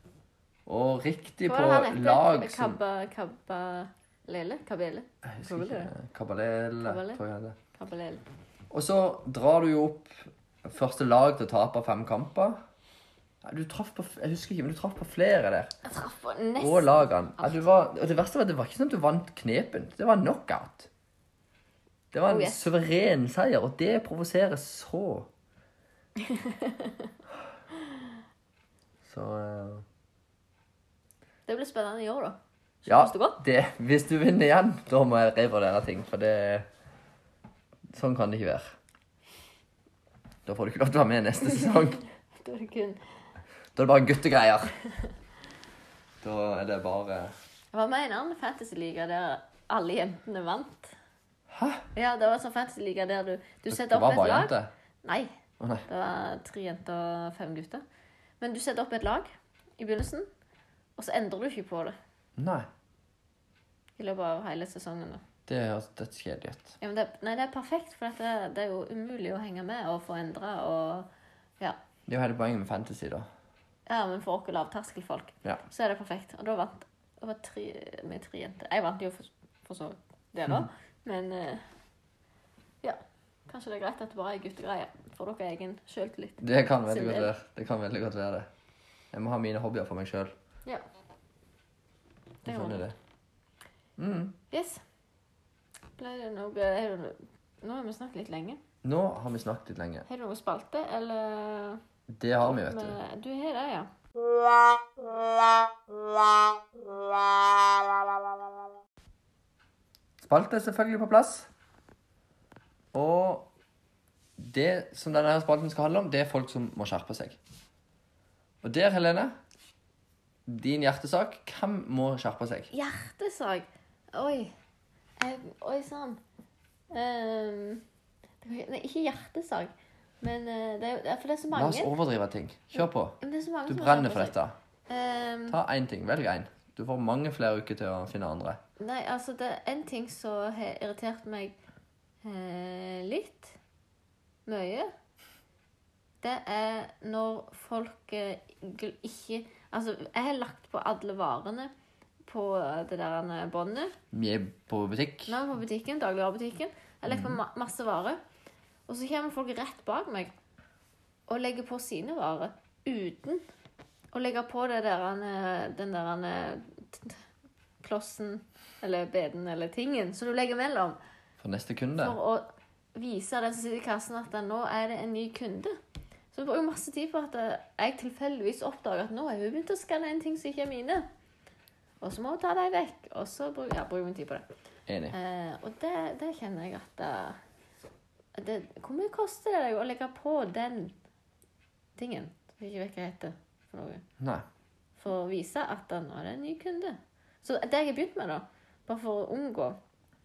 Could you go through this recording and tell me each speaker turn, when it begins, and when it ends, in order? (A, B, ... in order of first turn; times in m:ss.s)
0:00.6-0:02.8 A
0:01.4-0:05.9 B
0:05.2-0:07.6 A
0:06.8-0:07.2 B
0:07.7-0:08.2 B
0:08.7-0:12.6 A
0:13.4-0:15.7 A
0:15.8-0:17.7 B
0:16.6-0:20.9 A
0:22.1-0:25.3 A
0:22.3-0:22.7 B
0:26.2-0:27.1 B
0:29.0-0:29.8 A
0:31.5-0:33.4 B
0:32.8-0:36.6 A
0:37.9-0:38.7 A
0:40.4-0:42.0 A
0:42.4-0:43.0 B
0:43.7-0:44.7 A
0:46.2-0:47.3 A
0:47.7-0:50.9 B
0:51.5-0:51.8 A
0:51.9-0:55.3 B
0:53.7-0:54.7 A
0:55.6-0:55.8 A
0:55.8-0:57.8 B
0:58.4-1:00.3 B
1:01.0-1:01.9 B
1:02.4-1:02.7 A
1:04.0-1:05.2 B
1:05.5-1:06.8 A
1:06.8-1:11.1 B
1:12.1-1:13.2 A
1:13.9-1:21.6 B
1:22.8-1:27.3 B
1:26.4-1:28.5 A
1:29.1-1:30.3 A
1:32.4-1:32.9 A
1:32.4-1:32.8 B
1:34.0-1:34.4 A
1:34.5-1:34.8 B
1:36.0-1:38.6 B
1:38.8-1:40.0 A
1:40.1-1:41.8 B
1:42.1-1:43.0 A
1:42.4-1:43.9 B
1:50.2-1:51.5 A
1:52.9-1:53.5 A
1:54.4-1:57.4 A
1:58.6-1:59.3 A
2:00.5-2:02.7 A
2:02.7-2:04.5 B
2:05.2-2:06.2 B
2:06.9-2:07.8 B
2:08.4-2:11.9 B
2:11.5-2:14.5 A
2:12.8-2:14.3 B
2:14.9-2:15.6 B
2:15.5-2:18.6 A
2:18.8-2:21.6 B
2:22.2-2:23.6 B
2:24.4-2:24.9 B
2:26.2-2:31.7 B
2:32.3-2:33.9 B
2:34.1-2:35.4 A
2:35.3-2:38.2 B
2:37.1-2:37.4 A
2:38.9-2:40.3 B
2:41.3-2:43.4 B
2:44.1-2:47.2 B
2:47.8-2:51.0 B
2:51.4-2:52.2 A
2:52.0-2:55.8 B
2:56.3-3:01.0 B
3:02.0-3:04.4 B
3:04.9-3:05.1 A
3:05.1-3:07.4 B
3:08.4-3:10.9 B
3:12.0-3:14.0 B
3:14.2-3:14.4 A
3:15.0-3:19.8 B